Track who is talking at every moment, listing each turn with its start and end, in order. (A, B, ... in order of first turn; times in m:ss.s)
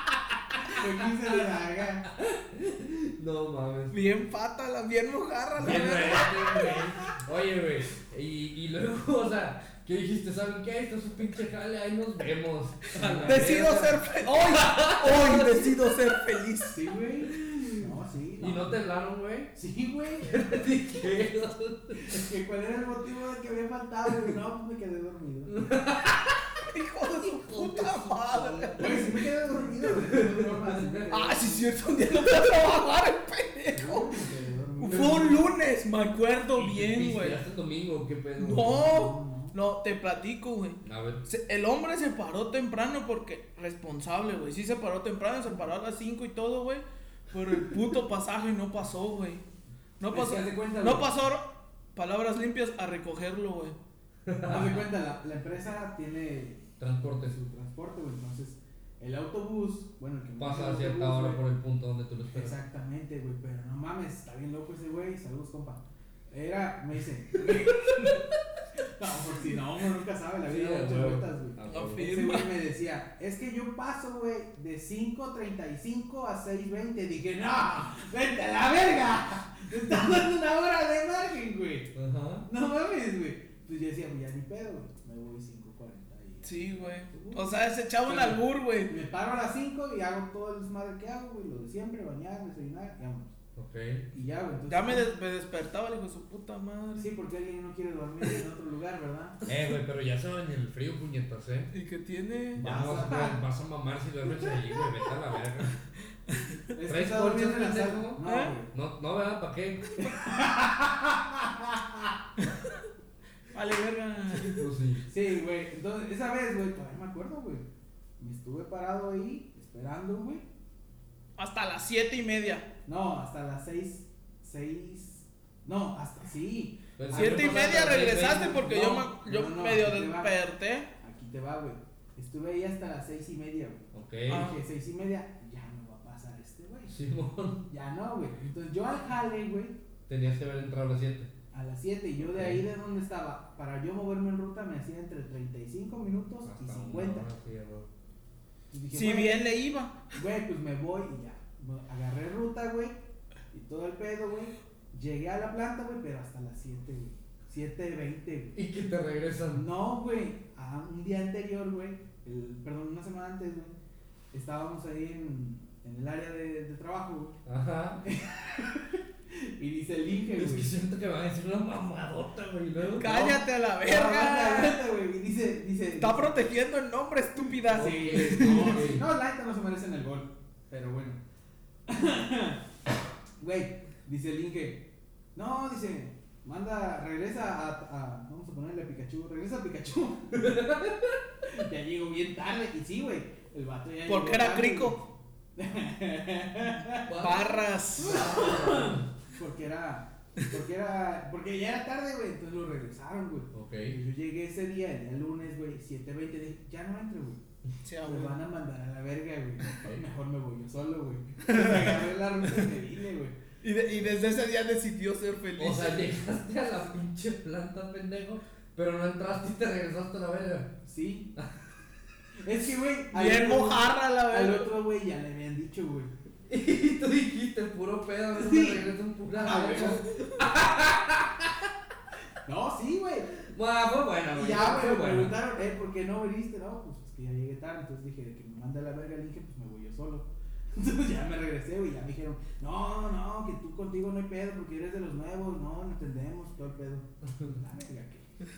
0:00.3-0:00.9 A
0:00.6-0:02.1 B
0:02.1-0:04.0 A
0:03.9-0:06.8 C
0:05.6-0:16.0 A
0:12.9-0:13.5 B
0:13.2-0:16.9 C
0:16.7-0:18.8 B
0:17.3-0:19.5 A
0:19.5-0:20.5 B
0:20.2-0:22.3 A
0:22.0-0:25.6 B
0:25.5-0:26.6 A
0:26.6-0:29.0 C
0:27.2-0:29.2 A
0:28.8-0:32.0 B
0:29.8-0:31.1 A
0:31.1-0:34.2 C
0:33.7-0:35.4 B
0:34.8-0:37.4 C
0:36.5-0:38.9 A
0:38.4-0:49.4 C
0:38.5-0:39.6 B
0:40.8-0:41.2 A
0:50.0-0:53.8 C
0:50.1-0:51.1 B
0:54.2-0:54.9 A
0:54.4-1:01.4 B
0:56.8-0:57.4 A
1:00.4-1:02.6 A
1:02.3-1:08.3 B
1:07.9-1:08.2 A
1:08.8-1:21.9 B
1:10.4-1:12.1 A
1:11.7-1:12.5 C
1:21.9-1:22.5 A
1:22.4-1:27.5 B
1:26.4-1:28.9 C
1:28.0-1:33.3 B
1:33.6-1:34.0 A
1:34.1-1:35.1 B
1:34.7-1:37.1 C
1:37.0-1:39.4 B
1:39.5-1:41.7 A
1:41.7-1:42.6 C
1:42.6-1:45.8 A
1:42.6-1:43.4 B
1:46.3-1:46.6 C
1:46.7-1:48.7 B
1:46.8-1:49.9 A
1:48.2-1:48.5 C
1:50.0-1:52.1 B
1:52.4-1:52.8 C
1:53.5-1:54.6 C
1:54.3-1:55.0 A
1:55.1-1:57.6 B
1:58.2-2:00.4 B
2:01.4-2:02.7 C
2:02.8-2:07.8 B
2:07.0-2:08.9 A
2:07.1-2:10.9 C
2:08.7-2:10.4 B
2:11.0-2:16.9 B
2:13.9-2:14.5 A
2:14.3-2:14.6 C
2:16.8-2:17.6 A
2:17.7-2:19.8 B
2:20.1-2:21.3 A
2:21.5-2:27.3 B
2:22.2-2:22.6 A
2:26.4-2:27.9 A
2:28.7-2:29.4 B
2:28.9-2:30.1 C
2:30.1-2:33.0 B
2:33.5-2:38.6 B
2:38.5-2:39.6 A
2:39.5-2:43.7 B
2:44.3-2:47.4 B
2:47.4-2:48.0 A
2:48.0-2:50.7 B
2:50.3-2:53.1 A
2:53.0-2:56.3 B
2:53.0-2:54.8 C
2:56.0-2:58.9 C
2:57.7-2:59.1 A
2:57.7-3:01.2 B
3:01.9-3:02.6 B
3:03.4-3:10.9 B
3:10.4-3:10.9 A
3:11.4-3:15.0 B
3:14.0-3:15.0 C
3:15.6-3:17.4 B
3:17.0-3:19.0 A
3:17.2-3:18.6 C
3:18.0-3:27.4 B
3:23.5-3:24.0 A
3:27.8-3:28.4 C
3:28.0-3:33.4 B
3:29.8-3:30.0 A
3:31.4-3:31.9 C
3:33.6-3:36.1 C
3:35.6-3:40.8 A
3:40.8-3:41.3 B
3:42.4-3:46.1 B
3:43.1-3:44.7 C
3:46.5-3:51.7 A
3:48.3-3:50.0 B
3:52.4-3:53.4 B
3:53.4-3:55.4 A
3:54.3-4:08.3 B